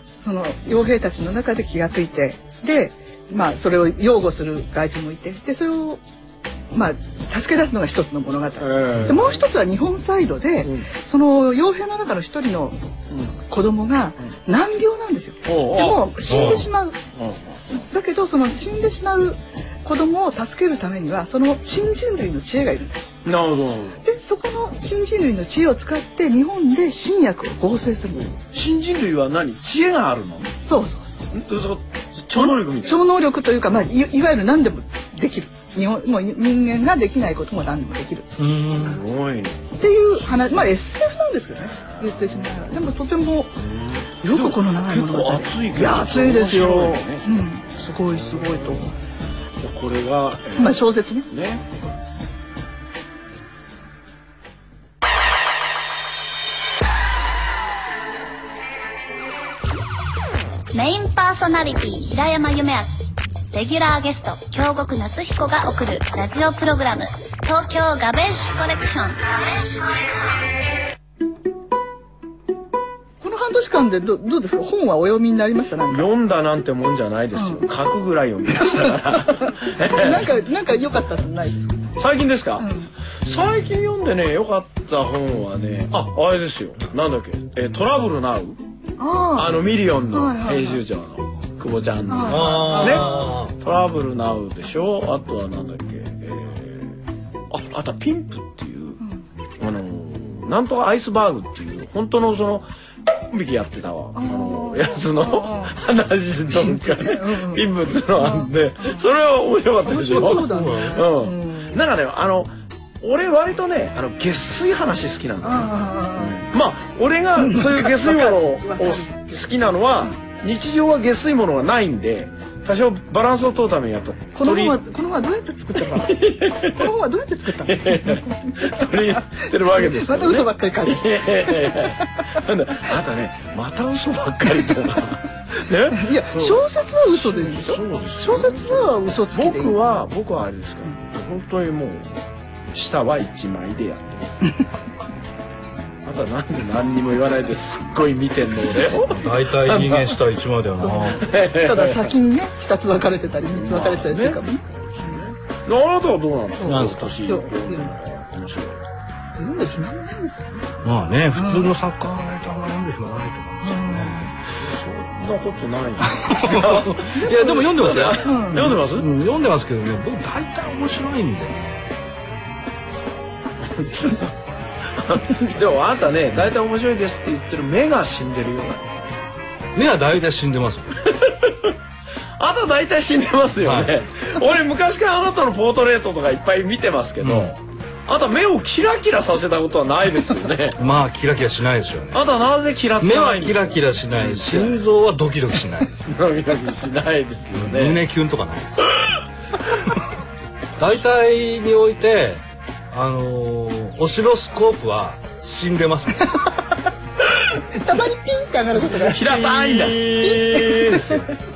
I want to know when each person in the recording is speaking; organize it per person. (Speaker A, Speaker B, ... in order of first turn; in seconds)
Speaker A: 0.2-6.0, 6.7-12.8, 13.5-17.0, 17.7-23.0, 24.0-28.4, 30.6-31.2, 32.3-38.4, 39.8-43.6, 44.2-48.9, 50.6-51.3, 73.2-76.1, 77.3-77.6, 79.8-81.7, 82.6-82.9, 89.0-90.8, 92.1-93.3, 104.2-105.8, 106.5-109.0, 109.8-111.8, 115.4-116.5, 117.4-119.5, 124.3-132.2, 135.9-139.8, 150.8-155.2, 156.6-157.9, 159.4-160.7, 161.3-161.7, 163.6-164.3, 167.1-168.7, 207.6-209.5, 210.2-211.1
Speaker B: 8.6-9.3, 10.6-10.9, 15.5-17.8, 23.2-24.0, 28.4-30.5, 31.3-33.0, 38.8-39.6, 42.0-42.4, 43.6-47.3, 49.6-51.6, 75.9-80.3, 82.0-82.7, 83.2-88.6, 89.3-99.0, 99.6-102.7, 103.3-124.8, 125.8-126.9, 127.6-142.2, 142.7-144.6, 146.0-150.2, 151.1-152.2, 153.5-158.8, 164.6-169.1, 173.7-174.3, 174.9-178.9, 181.1-181.7, 182.4-190.8, 192.1-194.8, 196.0-198.0, 208.9-211.1
Speaker C: 16.3-16.6, 38.4-39.0, 92.3-93.5, 110.4-111.1, 149.1-151.3, 156.7-157.2, 160.8-164.3, 166.1-171.9, 179.8-181.0, 183.6-183.9, 187.2-187.5, 190.8-192.2, 193.0-196.0, 197.6-199.2, 200.8-206.4, 209.3-211.3
Speaker D: 60.7-69.8